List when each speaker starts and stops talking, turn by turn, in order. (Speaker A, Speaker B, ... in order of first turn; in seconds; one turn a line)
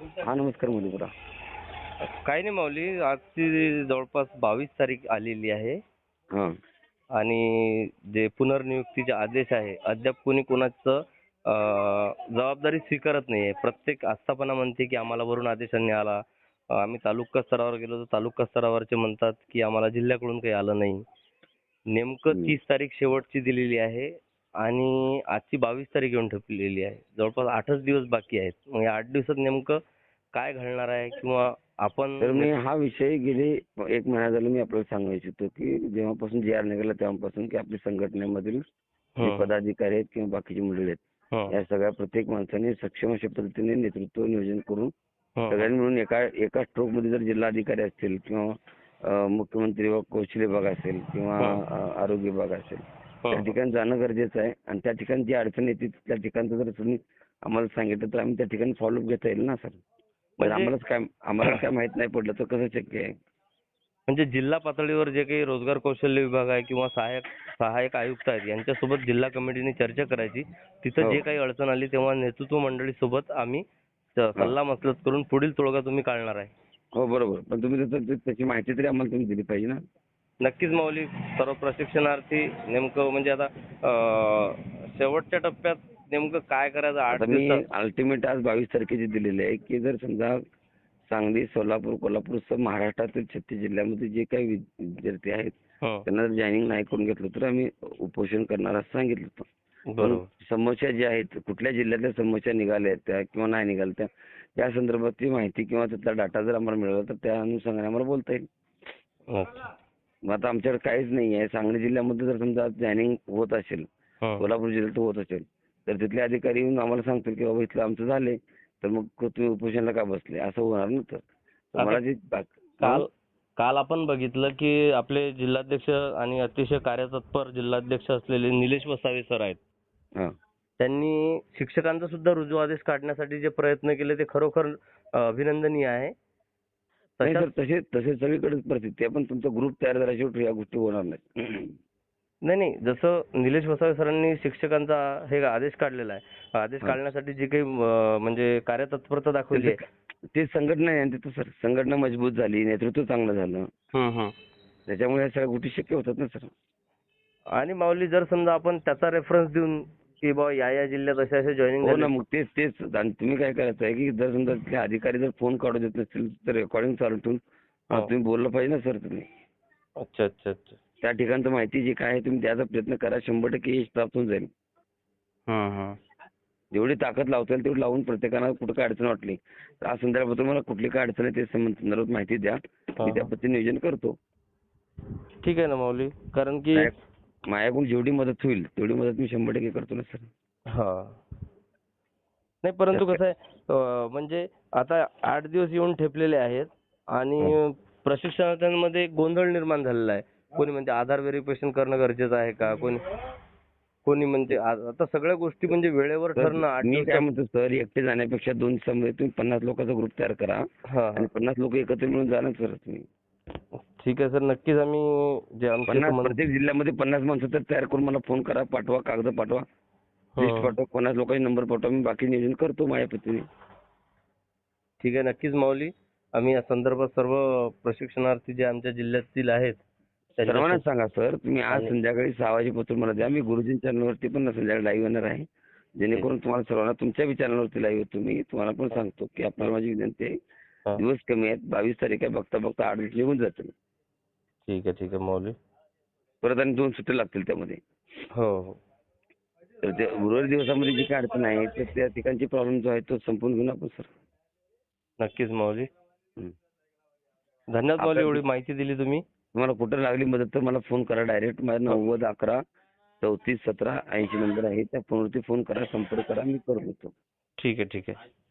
Speaker A: 0.2-1.1
Speaker B: 2.0-5.8
Speaker B: 7.1-16.2
Speaker B: 16.7-21.0
Speaker B: 21.9-29.8
Speaker A: 22.3-22.6
Speaker B: 30.3-32.5
Speaker A: 32.2-38.6
Speaker B: 39.2-39.4
Speaker A: 39.2-44.9
Speaker B: 45.4-45.7
Speaker A: 45.5-48.5
Speaker A: 49.0-59.8
Speaker B: 53.2-53.5
Speaker B: 60.4-60.7
Speaker A: 60.4-63.1
Speaker B: 64.1-73.6
Speaker B: 74.2-76.5
Speaker A: 76.9-79.8
Speaker B: 80.4-87.6
Speaker A: 87.1-90.4
Speaker A: 91.1-95.5
Speaker A: 96.0-99.5
Speaker B: 99.9-100.2
Speaker A: 100.0-108.5
Speaker B: 109.3-109.7
Speaker A: 110.3-113.8
Speaker A: 114.4-123.0
Speaker B: 122.8-123.1
Speaker B: 123.6-129.6
Speaker B: 130.8-136.1
Speaker B: 137.2-137.5
Speaker A: 137.2-141.8
Speaker B: 142.4-149.8
Speaker A: 149.5-153.7
Speaker B: 153.9-154.3
Speaker A: 154.9-156.5
Speaker B: 157.5-162.1
Speaker A: 161.8-169.3
Speaker B: 170.0-170.8
Speaker A: 171.0-174.5
Speaker B: 175.5-176.0
Speaker A: 176.7-184.2
Speaker B: 183.0-183.3
Speaker B: 185.4-186.9
Speaker A: 187.5-190.3
Speaker B: 190.7-191.2
Speaker B: 192.6-203.0
Speaker A: 192.9-193.2
Speaker B: 204.0-207.2
Speaker A: 206.3-213.1
Speaker B: 210.9-211.3
Speaker B: 213.8-216.4
Speaker A: 215.9-219.6
Speaker B: 220.4-220.7
Speaker A: 220.4-223.4
Speaker B: 225.0-229.8
Speaker B: 230.4-230.8
Speaker A: 230.4-235.5
Speaker A: 236.0-240.3
Speaker A: 241.0-243.7
Speaker B: 244.7-245.5
Speaker A: 246.4-247.8
Speaker B: 248.3-248.8
Speaker A: 249.8-254.1
Speaker B: 255.2-255.9
Speaker B: 257.7-259.2
Speaker A: 258.0-258.4
Speaker A: 259.5-262.6
Speaker A: 263.2-267.1
Speaker B: 267.6-268.1